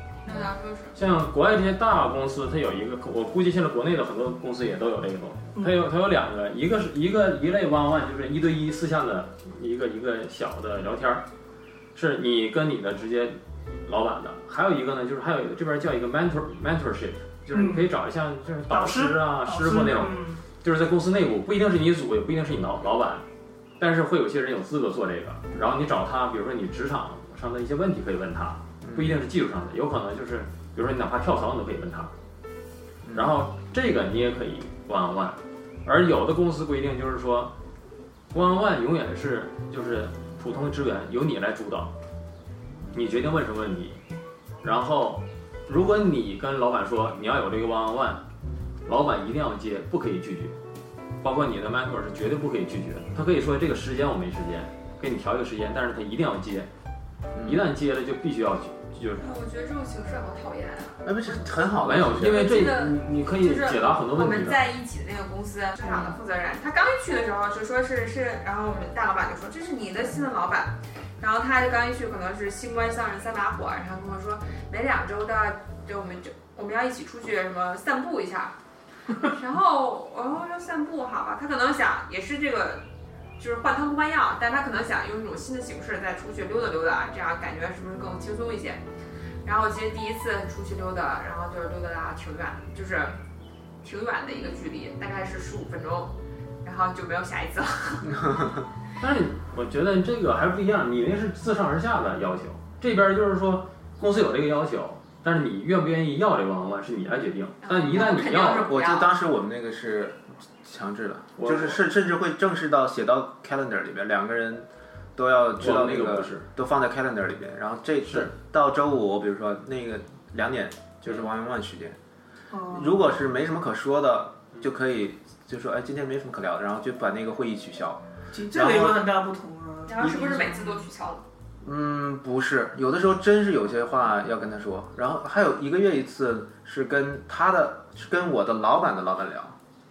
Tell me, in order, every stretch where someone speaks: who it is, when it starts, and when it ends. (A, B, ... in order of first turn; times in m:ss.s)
0:00.2-0:01.0 A
0:01.0-0:11.2 B
0:12.0-0:23.2 B
0:17.5-0:17.9 C
0:18.7-0:20.4 C
0:23.8-0:32.1 B
0:28.8-0:29.2 D
0:33.0-0:33.3 D
0:33.1-0:37.5 B
0:38.3-0:41.9 B
0:42.9-0:44.0 B
0:44.6-0:48.2 B
0:48.9-0:50.6 B
0:51.2-0:56.7 B
0:57.4-0:57.6 D
0:57.4-0:59.3 B
0:59.2-1:01.0 A
1:01.0-1:02.5 D
1:01.8-1:04.6 B
1:02.2-1:18.5 A
1:19.2-1:22.8 A
1:23.4-1:28.8 A
1:29.4-1:33.2 A
1:33.8-1:38.2 A
1:39.0-1:48.7 B
1:47.6-1:49.1 A
1:48.7-2:02.0 D
1:51.4-1:51.8 B
1:55.6-1:56.5 B
2:02.5-2:03.0 C
2:02.7-2:09.0 D
2:08.3-2:10.8 C
2:09.9-2:11.2 A
2:11.6-2:19.6 D